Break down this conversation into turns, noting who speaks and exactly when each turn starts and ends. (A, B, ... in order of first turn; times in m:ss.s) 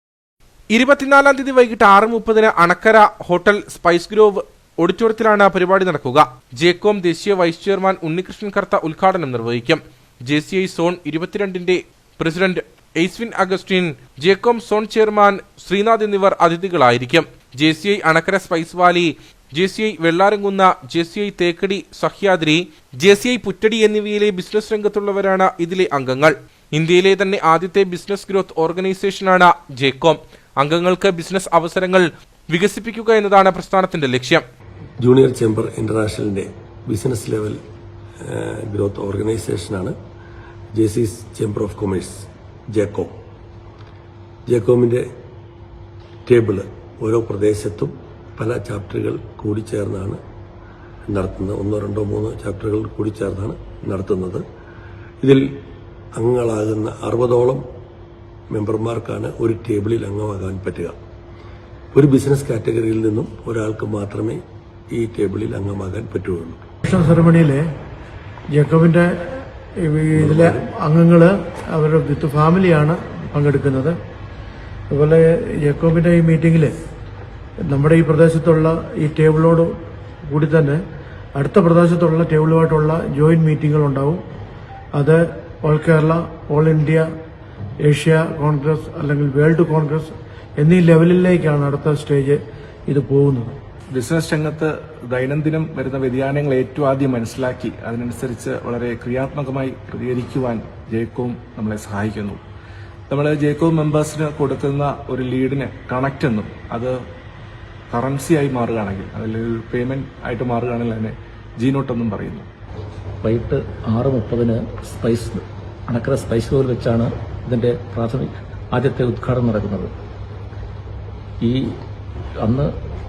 0:00.7-0:34.4 A
0:35.0-0:37.6 B
0:38.2-0:40.0 B
0:40.7-0:43.1 B
0:44.5-0:45.0 B
0:46.2-0:50.2 B
0:51.1-0:54.4 B
0:56.2-0:57.6 B
0:58.5-1:00.9 B
1:01.9-1:04.4 B
1:04.9-1:06.6 B
1:06.8-1:07.6 C
1:08.5-1:14.0 C
1:10.2-1:10.6 B
1:14.9-1:16.7 C
1:17.6-1:19.7 C
1:20.3-1:20.8 C
1:21.4-1:24.2 C
1:25.0-1:27.1 C
1:27.8-1:33.5 C
1:33.9-1:42.4 D
1:43.1-1:47.0 D
1:47.9-1:52.5 D
1:53.2-1:59.9 E
2:01.4-2:01.7 E
2:02.4-2:02.7 E